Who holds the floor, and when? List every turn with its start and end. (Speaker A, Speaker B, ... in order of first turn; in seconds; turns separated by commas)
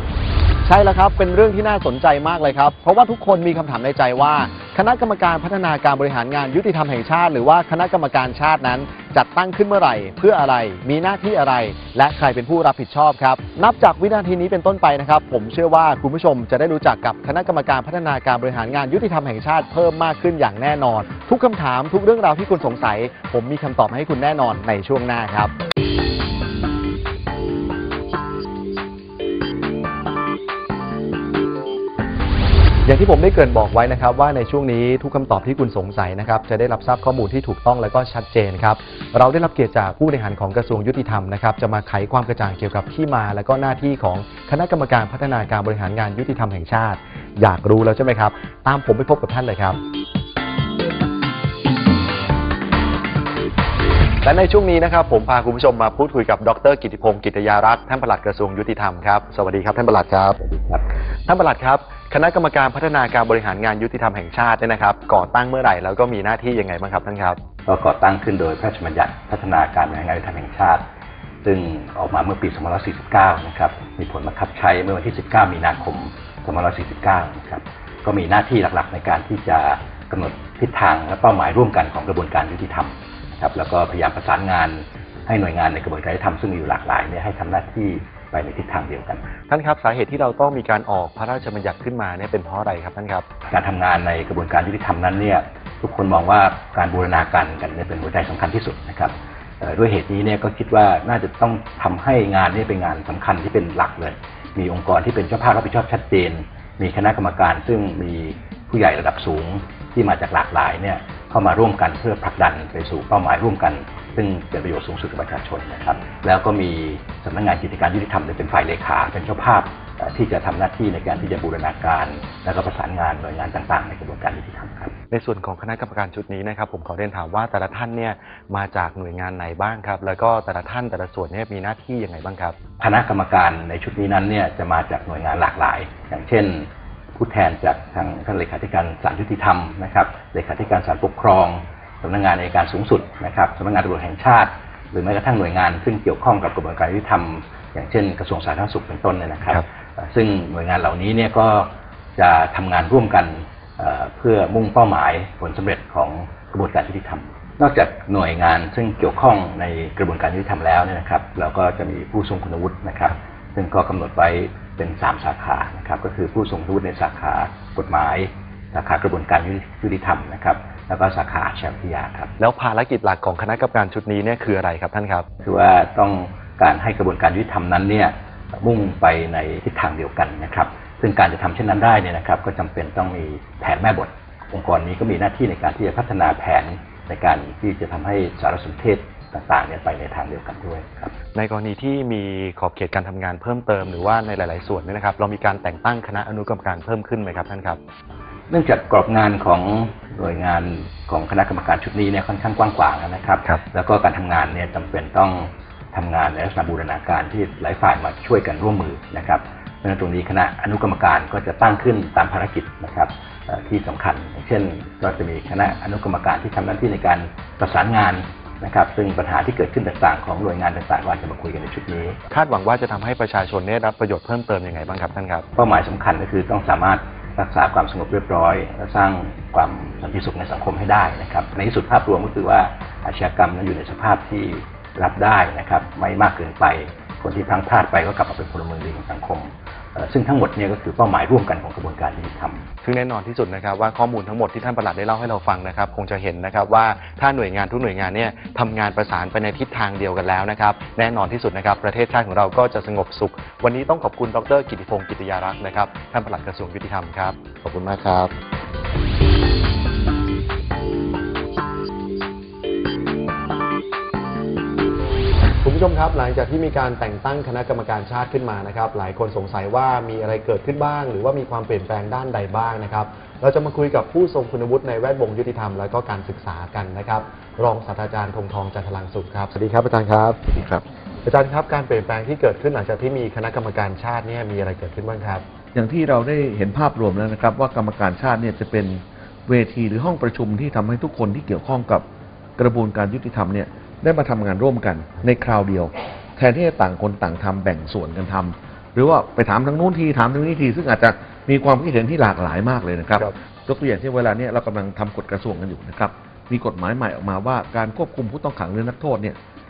Speaker A: 0.6-25.5, Speaker A: 32.9-49.8, Speaker A: 54.2-60.4, Speaker B: 60.4-60.9, Speaker A: 61.3-67.4, Speaker B: 67.7-70.8, Speaker B: 71.4-89.3, Speaker A: 89.5-93.3, Speaker B: 93.5-124.9, Speaker A: 125.1-132.6, Speaker B: 132.8-172.3, Speaker A: 172.4-175.3, Speaker B: 175.4-191.1, Speaker A: 191.3-197.8, Speaker B: 198.5-222.2, Speaker A: 222.3-225.5, Speaker B: 225.6-242.7, Speaker A: 242.8-258.3, Speaker A: 265.6-280.6, Speaker A: 281.2-285.4, Speaker C: 285.7-292.1, Speaker C: 292.6-309.4